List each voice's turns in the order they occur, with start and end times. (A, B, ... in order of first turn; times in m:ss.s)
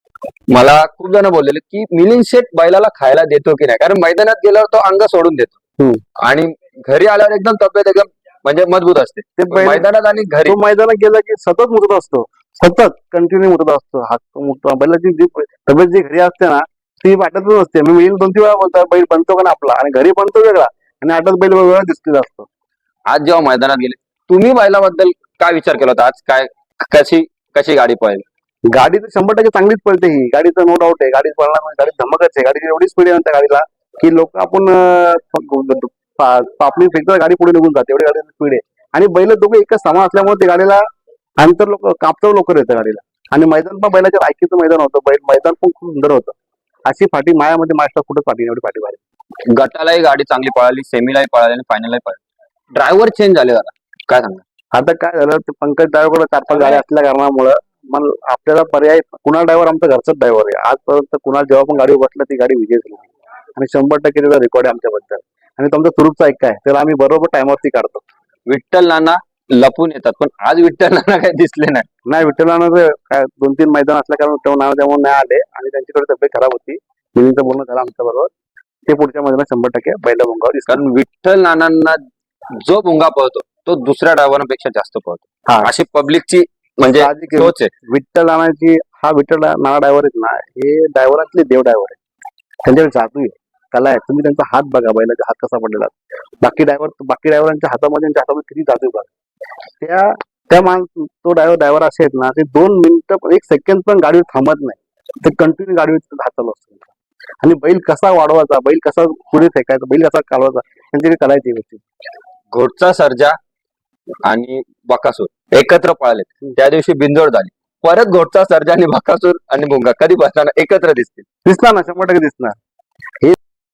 0:00.5-0:05.6 A
0:06.2-0:10.6 A
0:09.4-0:09.8 B
0:10.4-0:22.5 B
0:23.1-0:28.2 A
0:28.7-0:40.8 B
0:41.4-0:49.0 B
0:49.5-0:52.2 A
0:52.7-0:54.4 A
0:54.7-1:08.0 B
0:56.5-0:56.8 A
1:08.5-1:11.9 A
1:12.0-1:18.3 B
1:18.8-1:20.8 B
1:20.7-1:22.0 A
1:22.5-1:27.7 A
1:26.9-1:32.0 B
1:32.6-1:39.1 B
1:39.8-1:46.9 B
1:47.4-1:51.8 B
1:52.5-1:53.4 A
1:54.2-2:01.2 A
2:01.4-2:02.6 B